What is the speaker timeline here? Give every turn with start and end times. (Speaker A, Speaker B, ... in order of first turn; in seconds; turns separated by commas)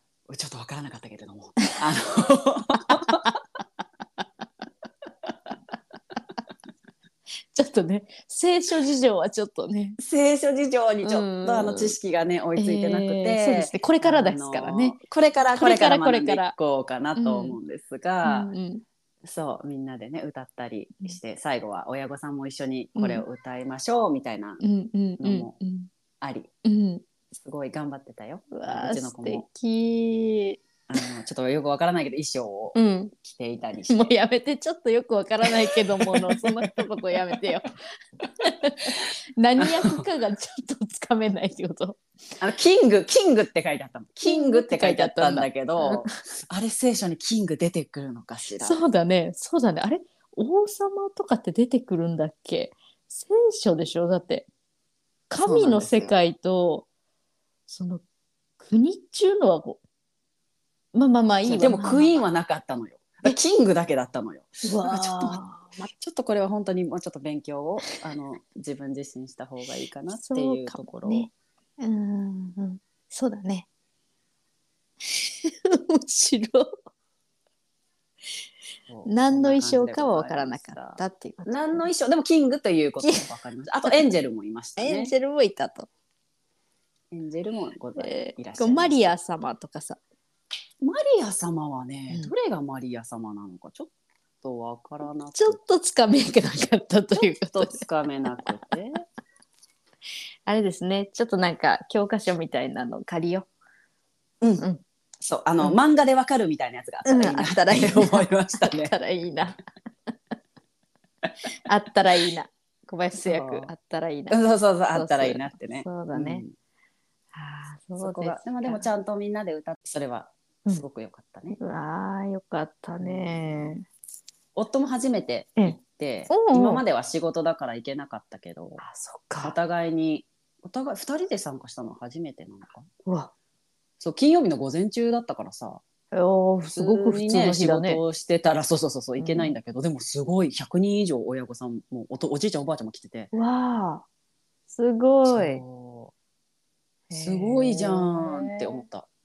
Speaker A: 0.3-3.2, Speaker B: 7.5-10.0, Speaker A: 10.0-18.5, Speaker B: 11.0-11.9, Speaker B: 12.6-15.0, Speaker B: 15.5-16.5, Speaker B: 17.1-17.6, Speaker B: 18.2-18.8, Speaker A: 19.2-24.6, Speaker B: 22.9-23.2, Speaker B: 24.6-25.9, Speaker A: 25.2-25.5, Speaker A: 26.2-26.5, Speaker B: 26.6-27.0, Speaker A: 27.3-29.4, Speaker B: 28.5-30.6, Speaker A: 30.9-34.1, Speaker B: 32.7-33.1, Speaker B: 33.9-37.7, Speaker A: 35.5-36.7, Speaker B: 38.4-42.0, Speaker A: 39.6-40.0, Speaker A: 42.4-48.8, Speaker B: 44.2-46.1, Speaker B: 48.6-54.5, Speaker B: 55.3-56.9, Speaker A: 55.4-56.1, Speaker B: 57.7-58.0, Speaker B: 58.6-59.8, Speaker B: 60.9-62.2, Speaker A: 61.4-65.4, Speaker B: 64.6-65.9, Speaker A: 65.9-71.3, Speaker B: 70.1-73.7, Speaker B: 75.1-76.8, Speaker A: 78.9-85.1, Speaker B: 79.0-81.9, Speaker B: 83.0-83.3, Speaker B: 84.8-85.9, Speaker A: 87.1-89.1, Speaker B: 88.0-90.0, Speaker A: 90.8-93.9, Speaker A: 94.4-95.6, Speaker B: 95.3-97.8, Speaker A: 97.1-99.0, Speaker B: 100.5-103.5, Speaker A: 104.4-104.7, Speaker A: 105.2-108.9, Speaker B: 107.0-109.6, Speaker B: 111.6-114.4, Speaker A: 113.2-113.7, Speaker A: 114.3-116.5, Speaker B: 114.9-116.4, Speaker B: 117.3-118.9, Speaker A: 118.0-121.6, Speaker B: 121.5-123.8, Speaker A: 123.0-123.7, Speaker A: 124.5-128.8, Speaker B: 126.3-126.8, Speaker B: 128.8-129.6, Speaker A: 129.4-132.9, Speaker B: 133.0-133.3, Speaker A: 134.0-135.8, Speaker B: 136.1-138.0, Speaker A: 136.7-143.3, Speaker B: 139.2-139.5, Speaker B: 143.3-144.0, Speaker B: 144.7-145.6, Speaker A: 145.2-146.1, Speaker B: 147.1-148.8, Speaker A: 147.1-149.1